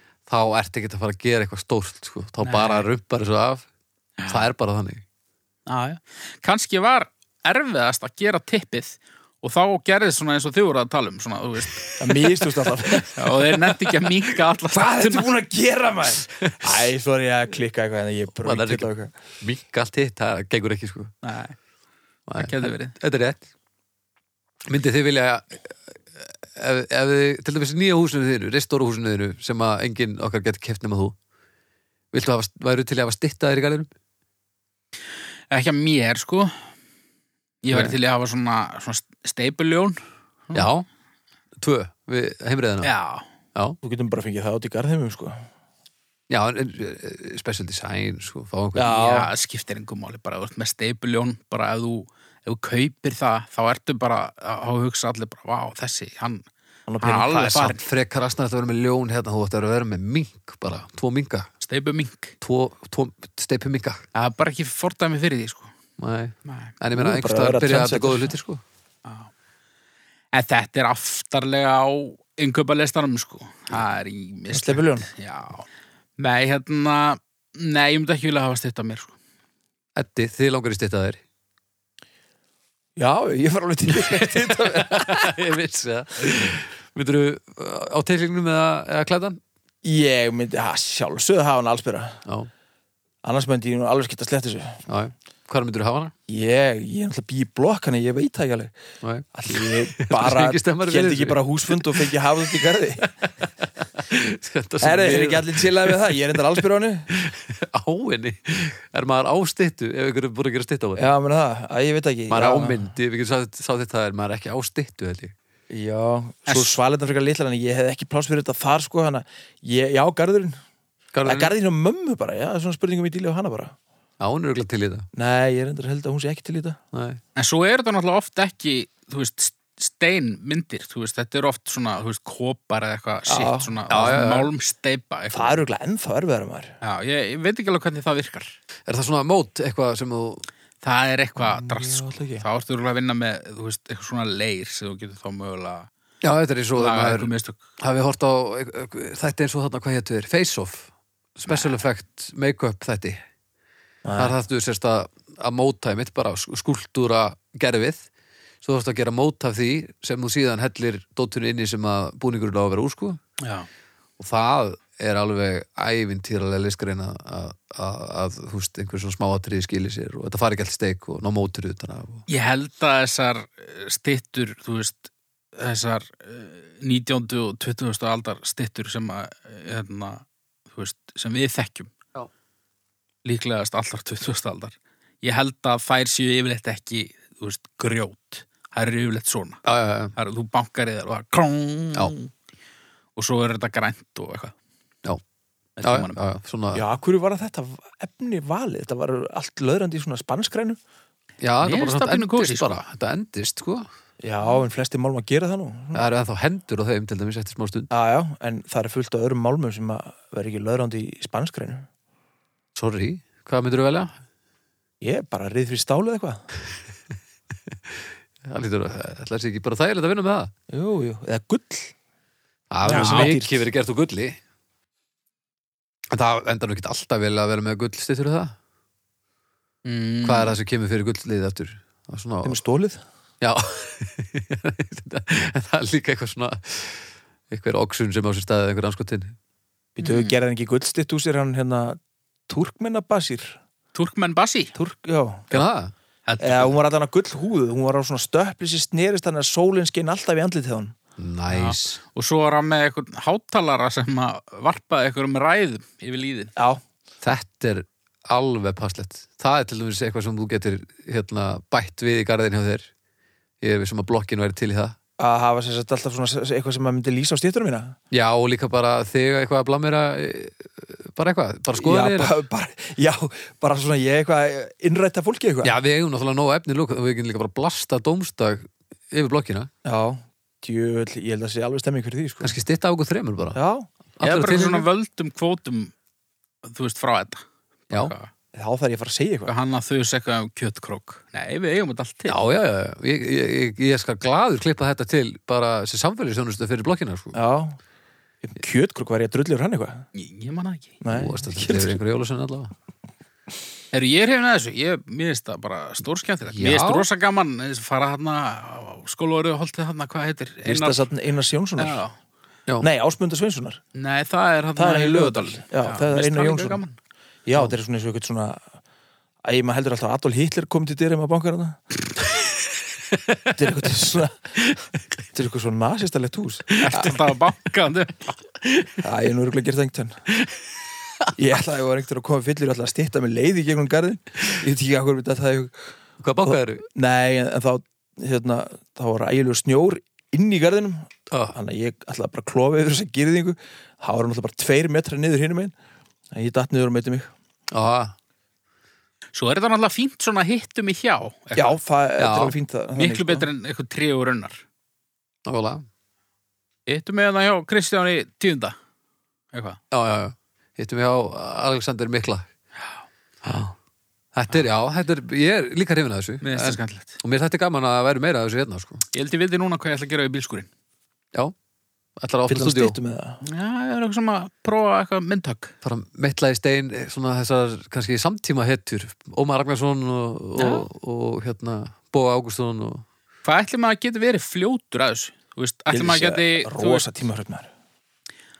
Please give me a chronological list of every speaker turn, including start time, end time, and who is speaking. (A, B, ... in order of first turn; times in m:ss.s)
0:00.3-0:03.6 A
0:02.4-0:02.8 B
0:04.2-0:04.5 B
0:04.3-0:05.0 A
0:05.7-0:11.9 B
0:11.7-0:12.2 A
0:12.0-0:13.2 C
0:12.9-0:14.0 A
0:13.1-0:15.2 B
0:14.7-0:19.1 C
0:16.4-0:16.8 A
0:18.4-0:18.9 A
0:19.4-0:21.1 A
0:21.2-0:21.6 B
0:22.3-0:23.4 A
0:22.4-0:22.9 B
0:24.6-0:31.2 A
0:32.1-0:33.9 A
0:35.5-0:36.5 B
0:37.6-0:40.7 B
0:37.7-0:38.0 A
0:40.5-0:40.8 A
0:41.6-0:42.9 A
0:42.8-0:43.2 B
0:43.8-0:45.4 C
0:46.3-0:48.9 A
0:48.7-0:49.3 C
0:48.9-0:56.4 B
0:56.9-0:57.3 C
0:57.0-0:57.8 B
0:57.3-1:01.5 A
1:01.6-1:02.3 B
1:02.4-1:04.0 A
1:04.1-1:05.7 B
1:06.0-1:08.6 A
1:06.5-1:06.7 B
1:06.9-1:08.3 C
1:09.0-1:09.3 B
1:10.3-1:15.6 B
1:14.5-1:15.1 C
1:16.2-1:19.1 B
1:20.0-1:21.2 A
1:23.0-1:25.4 C
1:23.9-1:29.4 A
1:29.8-1:32.2 C
1:33.2-1:34.8 C
1:34.9-1:36.1 A
1:36.3-1:38.7 C
1:39.0-1:46.4 A
1:39.3-1:43.1 C
1:44.8-1:47.1 C
1:47.1-1:51.0 A
1:51.0-1:52.9 C
1:52.3-1:55.3 A
1:55.7-2:00.6 C
1:56.5-1:56.8 B
2:01.1-2:01.5 A
2:01.2-2:03.7 C
2:04.2-2:05.1 A
2:05.1-2:06.8 C
2:06.9-2:07.2 A
2:07.4-2:15.6 B
2:13.3-2:14.1 C
2:13.9-2:14.5 A
2:15.3-2:16.7 C
2:16.8-2:18.6 B
2:18.9-2:20.4 A
2:20.8-2:25.9 B
2:21.4-2:22.4 C
2:26.2-2:33.2 A
2:26.7-2:27.6 B
2:31.5-2:31.7 B
2:34.0-2:34.3 C
2:34.2-2:38.0 A
2:38.6-2:43.2 A
2:43.4-2:43.7 B
2:44.2-2:52.2 A
2:52.3-3:01.9 B
3:03.2-3:09.6 B
3:09.6-3:10.1 A
3:10.2-3:12.3 B
3:13.2-3:14.5 B
3:15.8-3:16.2 B
3:15.8-3:16.8 A
3:16.7-3:20.8 C
3:21.4-3:23.9 A
3:21.6-3:22.8 B
3:24.2-3:26.0 C
3:25.9-3:27.9 A
3:27.9-3:31.9 C
3:32.7-3:34.1 A
3:35.0-3:36.4 C
3:37.7-3:40.5 A
3:40.7-3:41.9 C
3:42.7-3:44.4 A
3:42.8-3:43.6 C
3:42.9-3:43.3 B
3:46.1-3:48.5 A
3:49.8-3:50.5 B
3:50.2-3:52.6 A
3:52.4-3:53.0 C
3:53.4-3:59.4 A
4:00.0-4:03.6 C
4:00.0-4:00.3 B
4:03.9-4:04.7 B
4:04.7-4:05.6 C
4:05.5-4:05.9 A
4:06.2-4:06.8 B
4:06.4-4:10.9 C
4:11.2-4:12.0 A
4:11.5-4:16.5 B
4:16.6-4:16.8 C
4:17.2-4:22.9 A
4:23.6-4:25.0 A
4:25.2-4:28.0 C
4:28.1-4:32.4 A
4:31.7-4:35.8 C
4:35.6-4:39.7 A
4:39.8-4:42.5 C
4:42.4-4:43.6 A
4:43.5-4:43.9 C
4:44.2-4:44.9 A
4:44.2-4:45.9 B
4:46.6-4:48.3 B
4:48.5-4:49.5 C
4:49.5-4:52.4 B
4:52.3-4:57.4 A
4:57.3-4:57.8 C
4:58.4-5:00.0 C
5:00.1-5:01.0 B
5:01.0-5:02.0 C
5:01.1-5:02.7 A
5:03.9-5:11.1 B
5:06.5-5:07.1 A
5:10.6-5:12.0 C
5:11.8-5:12.1 B
5:12.8-5:13.8 C
5:13.9-5:17.0 B
5:14.8-5:16.8 C
5:17.4-5:18.6 C
5:19.4-5:21.8 C
5:23.1-5:23.6 A
5:23.5-5:24.5 C
5:25.3-5:27.1 C
5:26.7-5:27.0 A
5:26.8-5:28.4 B
5:28.6-5:29.0 A
5:29.0-5:30.2 C
5:31.4-5:35.7 C
5:36.2-5:36.8 A
5:36.4-5:45.7 C
5:41.3-5:41.6 A
5:46.3-5:47.3 C
5:47.7-5:48.1 A
5:49.3-5:51.8 B
5:51.5-5:53.5 C
5:52.2-5:52.6 A
5:53.0-5:54.6 B
5:55.4-5:55.8 A
5:56.9-5:58.8 B
5:59.5-5:59.8 B
5:59.9-6:02.5 A
6:03.4-6:03.7 A
6:04.3-6:09.0 A
6:06.4-6:07.2 B
6:09.1-6:10.7 B
6:12.2-6:13.0 A
6:12.5-6:13.4 C
6:13.4-6:15.7 B
6:15.8-6:23.0 A
6:20.6-6:20.9 B
6:23.4-6:27.1 B
6:25.9-6:27.7 C